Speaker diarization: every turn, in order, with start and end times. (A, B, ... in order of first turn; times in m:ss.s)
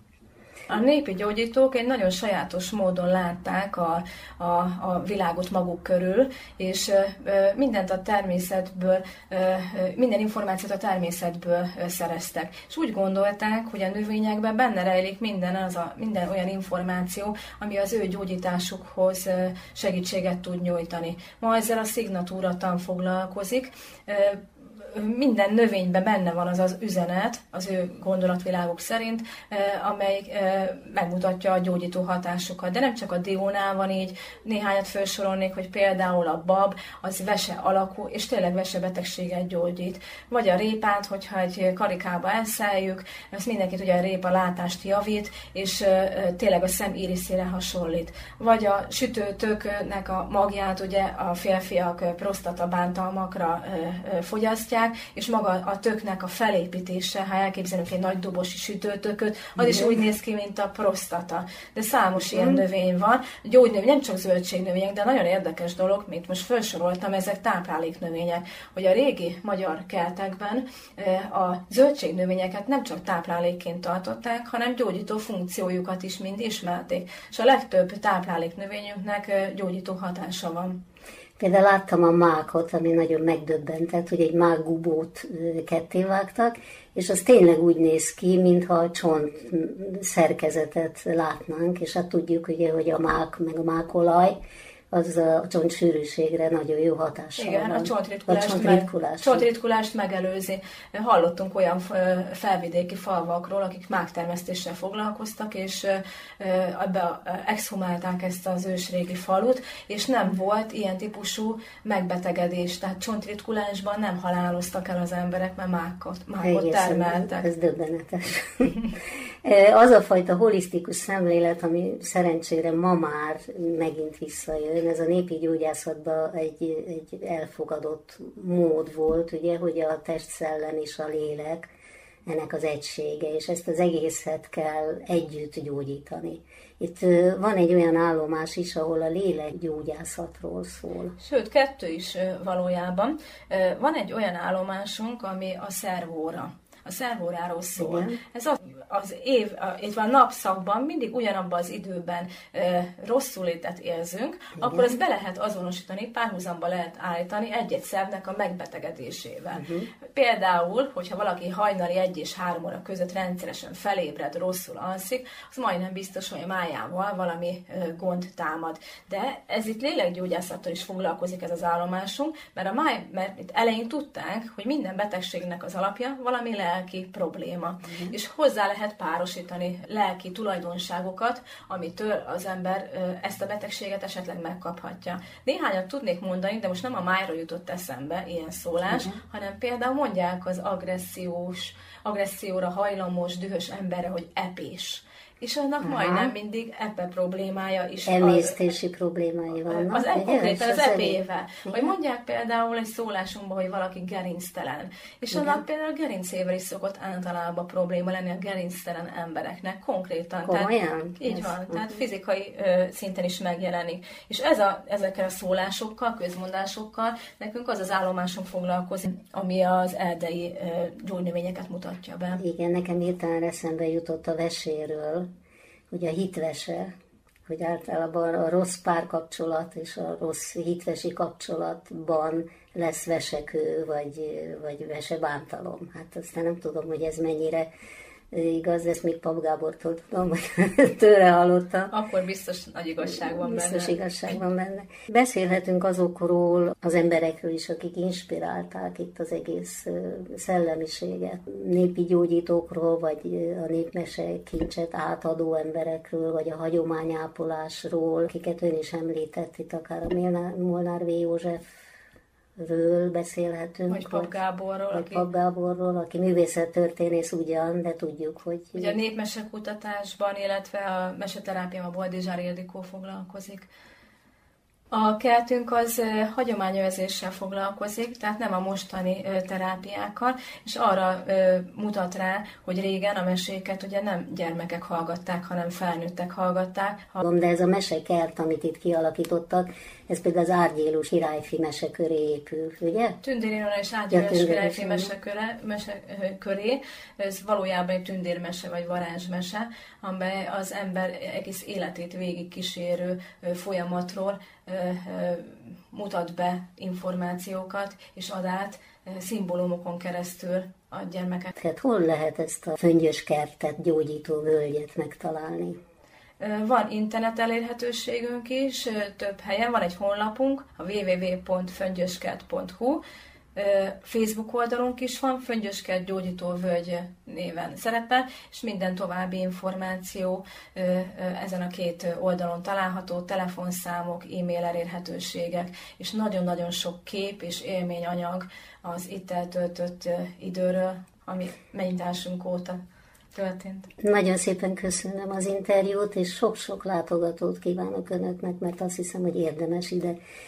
0:00.7-1:20.8 A
0:59.6-1:00.0 B
1:02.2-1:02.6 B
1:21.4-1:34.4 B
1:34.9-1:39.5 B
1:37.4-1:57.5 A
1:56.4-2:11.7 B
2:12.2-2:21.2 B
2:21.2-3:18.6 A
2:27.8-2:28.2 B
2:34.6-2:34.9 B
2:39.5-2:39.9 B
2:57.8-2:58.1 B
3:08.9-3:09.2 B
3:15.8-3:16.3 B
3:18.0-3:21.9 B
3:19.7-3:42.4 A
3:25.3-3:25.6 B
3:30.4-3:32.0 B
3:42.3-3:45.3 B
3:45.9-3:46.9 B
3:47.4-3:57.7 B
3:58.3-4:01.9 B
4:01.9-4:04.4 A
4:03.2-4:21.8 B
4:22.6-4:24.3 B
4:23.9-4:25.2 A
4:24.9-4:29.0 B
4:28.7-4:33.7 A
4:34.9-4:47.2 A
4:47.2-4:53.2 B
4:53.2-5:11.5 A
4:54.1-4:55.1 B
5:11.5-5:15.8 B
5:16.4-5:23.0 A
5:23.5-5:42.8 A
5:43.3-5:43.9 A
5:44.0-5:50.2 B